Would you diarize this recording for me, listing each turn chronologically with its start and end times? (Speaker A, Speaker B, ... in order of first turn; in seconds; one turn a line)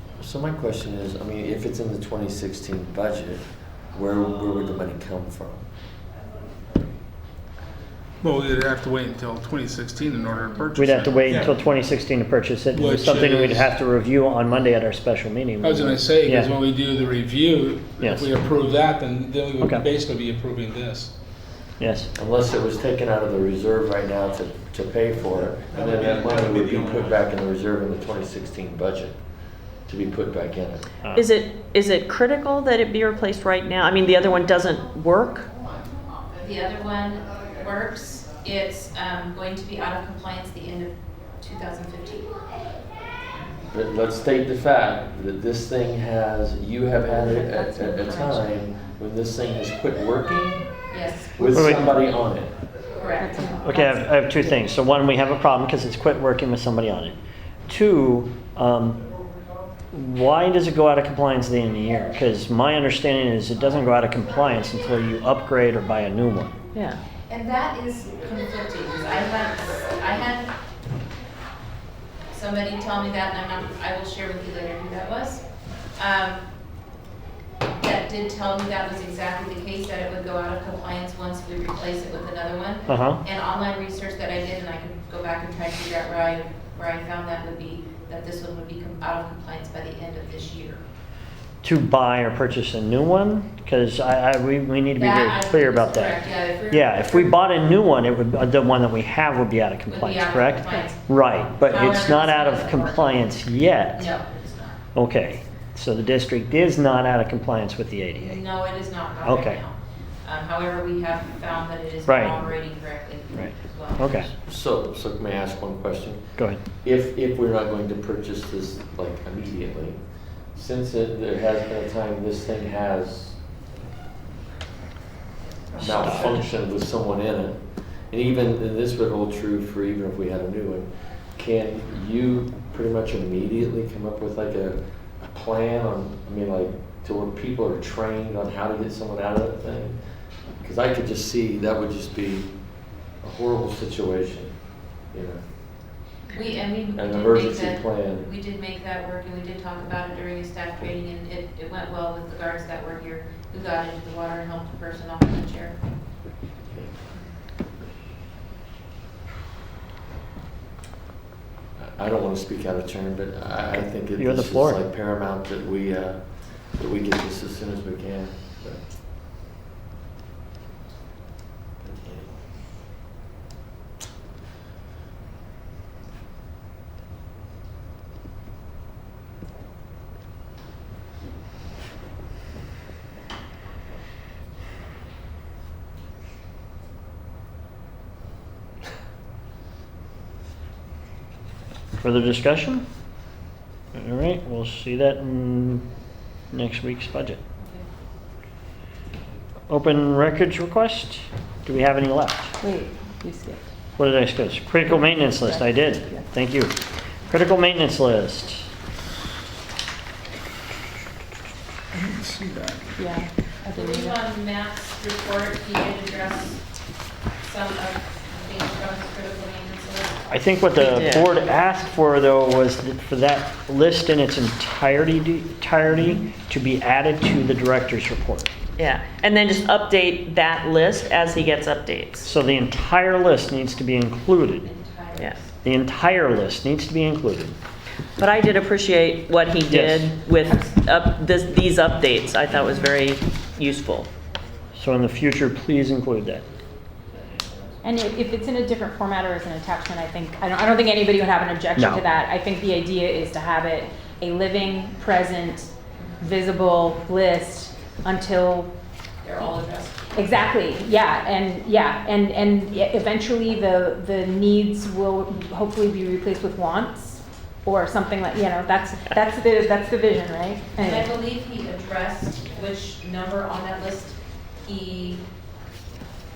Speaker A: 0.2-3.4
Speaker A: 3.9-5.6
Speaker B: 8.2-11.6
Speaker C: 10.8-16.5
Speaker B: 12.7-13.7
Speaker B: 15.6-21.1
Speaker C: 18.0-18.3
Speaker C: 19.6-19.8
Speaker C: 21.8-22.1
Speaker A: 22.1-29.2
Speaker A: 29.9-30.9
Speaker D: 31.1-35.5
Speaker E: 36.4-42.3
Speaker A: 43.7-50.6
Speaker F: 47.0-48.5
Speaker E: 50.9-51.5
Speaker A: 51.4-52.5
Speaker C: 51.5-52.0
Speaker E: 53.0-53.5
Speaker F: 53.2-54.2
Speaker C: 53.6-59.0
Speaker C: 59.9-66.5
Speaker E: 67.3-70.5
Speaker E: 72.3-75.4
Speaker E: 76.0-76.4
Speaker E: 77.8-90.8
Speaker C: 82.9-83.2
Speaker C: 91.6-104.1
Speaker E: 95.0-97.3
Speaker E: 99.9-101.0
Speaker E: 101.6-103.3
Speaker E: 103.9-104.8
Speaker C: 104.9-108.4
Speaker E: 108.2-114.1
Speaker C: 109.2-109.6
Speaker C: 112.0-112.4
Speaker C: 113.3-114.3
Speaker A: 114.5-120.0
Speaker A: 120.5-123.4
Speaker A: 125.8-127.6
Speaker A: 128.1-140.0
Speaker A: 140.6-142.5
Speaker A: 143.2-144.5
Speaker A: 145.1-145.4
Speaker E: 146.3-155.8
Speaker A: 146.9-148.3
Speaker A: 161.8-166.2
Speaker C: 164.1-164.8
Speaker A: 166.7-168.8
Speaker A: 171.8-172.3
Speaker C: 192.0-192.8
Speaker C: 193.9-195.8
Speaker C: 196.5-197.4
Speaker C: 199.7-202.5
Speaker F: 202.6-203.7
Speaker C: 204.0-206.8
Speaker F: 204.8-206.3
Speaker C: 207.3-208.7
Speaker B: 211.9-212.9
Speaker F: 212.9-214.2
Speaker E: 213.7-216.6
Speaker E: 217.4-220.2
Speaker C: 220.3-228.5
Speaker D: 220.8-221.3
Speaker D: 228.8-232.3
Speaker C: 232.2-234.7
Speaker E: 234.6-235.5
Speaker C: 235.6-237.5
Speaker D: 238.2-244.1
Speaker C: 239.7-240.1
Speaker F: 240.4-240.7
Speaker C: 244.7-246.4
Speaker F: 247.8-258.7
Speaker C: 251.8-252.0
Speaker E: 259.2-260.1
Speaker F: 260.1-271.1
Speaker E: 270.8-275.2